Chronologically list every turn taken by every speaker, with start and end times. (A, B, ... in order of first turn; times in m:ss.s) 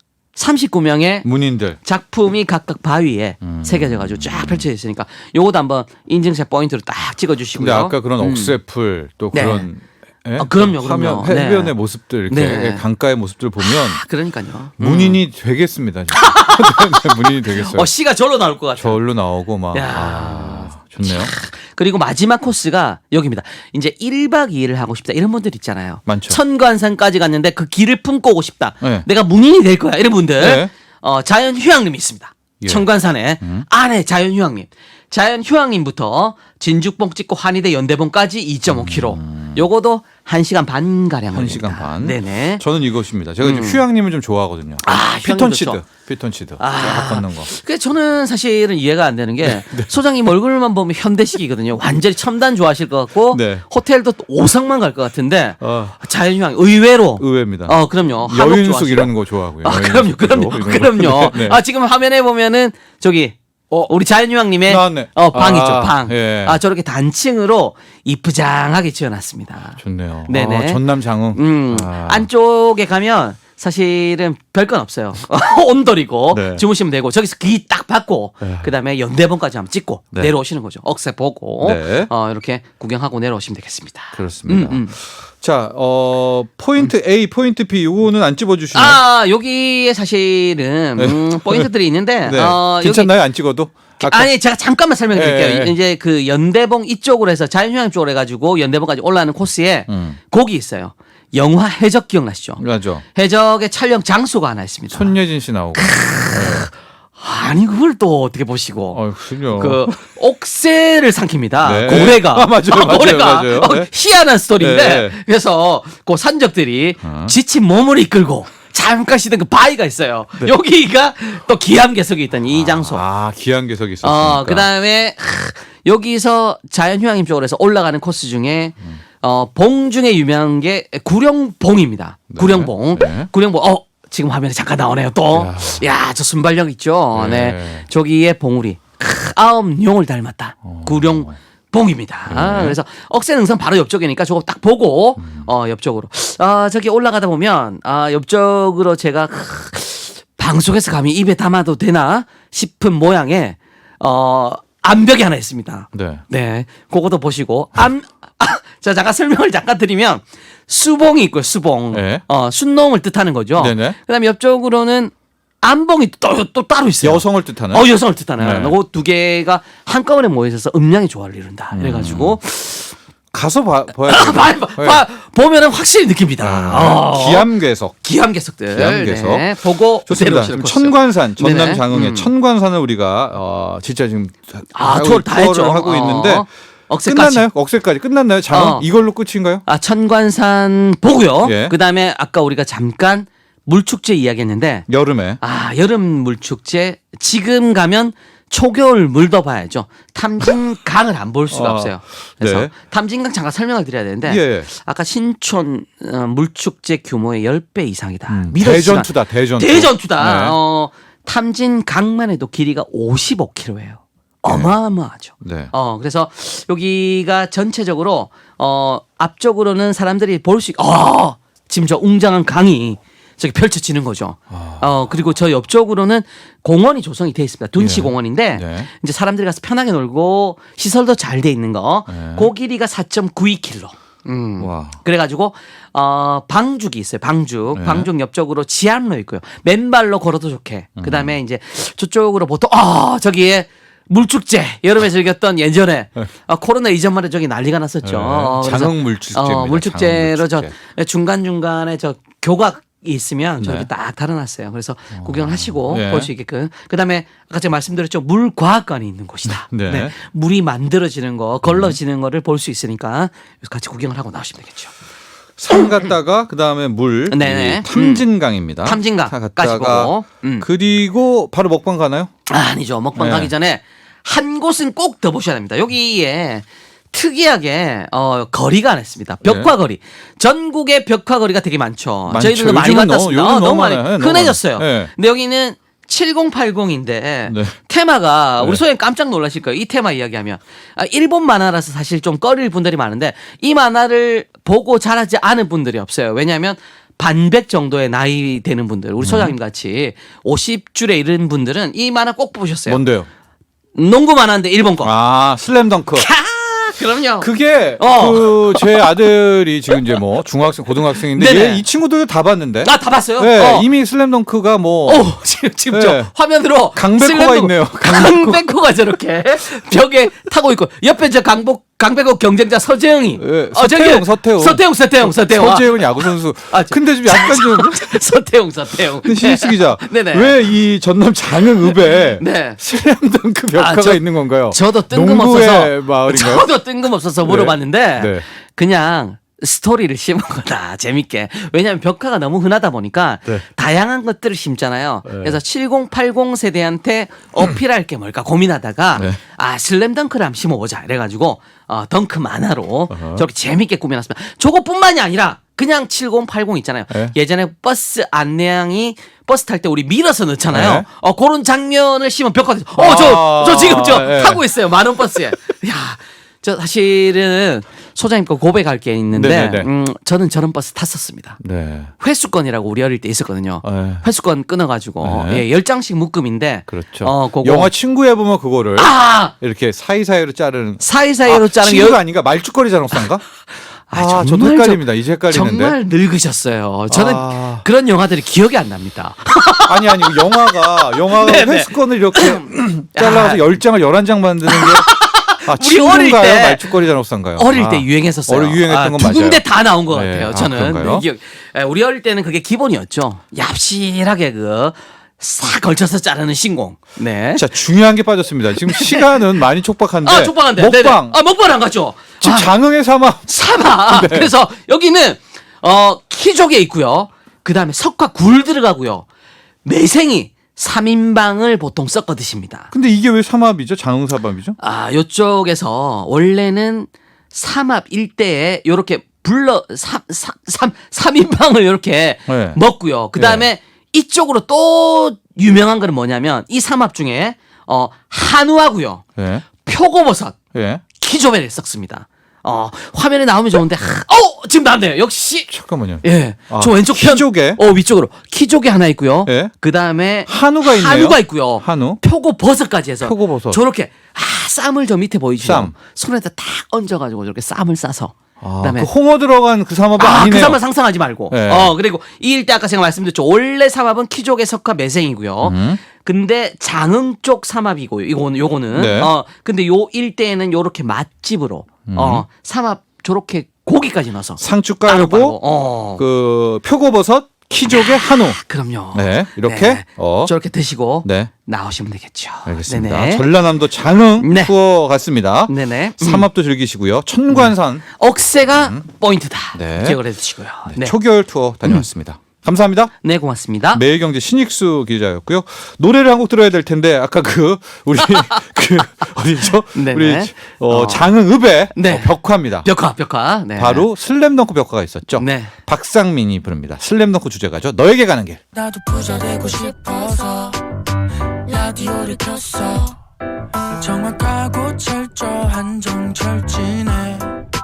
0:00.3-0:01.3 A
0:01.2-0:01.8 B
0:01.8-0:08.6 A
0:03.4-0:04.7 B
0:07.5-0:14.0 B
0:09.3-0:09.7 A
0:10.4-0:11.7 A
0:12.3-0:12.8 A
0:13.6-0:15.2 A
0:14.8-0:17.9 B
0:16.1-0:19.0 A
0:18.8-0:21.3 B
0:19.7-0:42.6 A
0:26.1-0:26.4 B
0:28.8-0:29.1 B
0:30.4-0:30.7 B
0:32.6-0:32.8 B
0:33.4-0:33.6 B
0:38.7-0:39.6 B
0:41.3-0:47.5 B
0:43.4-0:43.8 A
0:44.8-0:45.8 A
0:46.6-1:24.9 A
0:49.4-0:49.9 B
0:53.3-0:53.6 B
0:55.6-0:56.0 B
0:57.2-1:01.6 B
1:04.6-1:06.6 B
1:09.8-1:12.3 B
1:16.3-1:16.6 B
1:18.4-1:18.7 B
1:21.6-1:22.1 B
1:24.1-1:29.0 B
1:28.7-1:33.1 A
1:31.0-1:31.7 B
1:32.2-1:34.3 B
1:34.0-1:42.6 A
1:35.1-1:35.7 B
1:39.9-1:40.2 B
1:42.6-1:43.0 B
1:43.1-1:45.2 A
1:44.9-1:46.7 B
1:45.7-2:03.0 A
1:48.9-1:50.0 B
1:51.6-1:53.9 B
1:54.6-1:55.2 B
1:57.0-1:57.3 B
2:02.5-2:04.7 B
2:04.0-2:52.9 A
2:12.3-2:13.3 B
2:15.3-2:15.8 B
2:17.1-2:17.8 B
2:20.6-2:21.4 B
2:22.3-2:22.8 B
2:25.2-2:25.5 B
2:35.9-2:36.2 B
2:41.9-2:42.2 B
2:43.6-2:44.0 B
2:47.0-2:47.9 B
2:48.4-2:48.8 B
2:51.7-2:52.4 B
2:53.3-2:55.0 B
2:54.0-3:02.3 A
2:56.4-2:58.0 B
2:58.7-3:06.5 B
3:04.7-3:07.4 A
3:07.0-3:09.6 B
3:08.5-3:08.8 A
3:09.6-3:14.9 A
3:11.4-3:11.8 B
3:14.9-3:15.4 B
3:15.4-4:24.9 A
3:21.5-3:22.7 B
3:24.2-3:24.7 B
3:28.3-3:30.6 B
3:34.4-3:34.7 B
3:35.4-3:35.7 B
3:44.5-3:44.9 B
3:47.8-3:48.9 B
3:52.1-3:52.5 B
3:54.6-3:55.0 B
3:57.7-3:58.1 B
4:01.0-4:01.4 B
4:08.0-4:10.7 B
4:13.6-4:13.9 B
4:15.2-4:16.3 B
4:19.5-4:20.1 B
4:21.6-4:22.0 B
4:25.6-4:32.3 B
4:27.3-4:28.2 A
4:28.8-4:30.6 A
4:32.5-5:03.0 A
4:33.2-4:33.5 B
4:39.4-4:39.7 B
4:42.3-4:45.1 B
4:47.4-4:47.8 B
4:59.2-4:59.5 B
5:02.9-5:03.3 B
5:03.9-5:05.1 A
5:05.0-5:06.3 B
5:06.1-5:09.1 A
5:07.4-5:15.3 B
5:11.1-5:11.8 A
5:12.8-5:13.9 A
5:15.0-5:30.6 A
5:15.9-5:16.3 B
5:16.9-5:18.6 B
5:23.4-5:28.2 B
5:29.2-5:36.7 B
5:32.1-5:32.8 A
5:33.7-6:11.6 A
5:37.4-5:38.4 B
5:45.2-5:45.6 B
5:53.1-5:53.4 B
6:00.7-6:01.0 B
6:03.0-6:04.6 B
6:09.3-6:09.9 B
6:11.6-6:12.1 B
6:12.2-6:17.9 A
6:13.8-6:14.2 B
6:15.2-6:15.6 B
6:16.9-6:23.4 B
6:19.0-6:19.5 A
6:21.0-6:22.2 A
6:24.1-6:33.6 A
6:24.1-6:25.9 B
6:27.1-6:27.8 B
6:29.8-6:35.1 B
6:34.6-6:37.0 A
6:35.6-6:41.2 B
6:37.6-6:47.7 A
6:47.6-6:51.4 B
6:48.8-6:49.4 A
6:50.2-6:52.7 A
6:52.4-6:53.5 B
6:53.5-6:59.2 A
6:54.0-6:54.5 B
6:59.8-7:02.9 A
7:02.9-7:04.8 B
7:04.8-7:20.6 A
7:12.5-7:12.8 B
7:13.3-7:13.6 B
7:19.4-7:19.6 B
7:20.7-7:21.0 B
7:21.2-7:25.7 A
7:25.7-7:27.8 B
7:26.2-7:39.1 A
7:29.4-7:29.7 B
7:30.5-7:32.2 B
7:33.2-7:33.8 B
7:35.6-7:35.9 B
7:38.6-7:40.8 B
7:40.2-7:56.2 A
7:41.5-7:41.9 B
7:45.6-7:46.0 B
7:48.9-7:49.3 B
7:52.0-7:52.4 B
7:54.6-7:55.6 B
7:56.2-7:58.6 B
7:57.9-8:03.4 A
7:59.1-8:00.5 B
8:01.2-8:01.5 B
8:02.6-8:08.0 B
8:04.4-8:04.7 A
8:05.7-8:06.5 A
8:07.5-8:11.1 A
8:08.7-8:09.0 B
8:09.7-8:10.2 B
8:10.9-8:13.1 B
8:13.2-8:14.0 A
8:13.9-8:22.9 B
8:19.9-8:21.3 A
8:21.9-8:24.1 A
8:23.8-8:28.6 B
8:25.4-8:25.7 A
8:28.7-8:30.8 C
8:31.6-8:33.2 C
8:34.0-8:37.5 C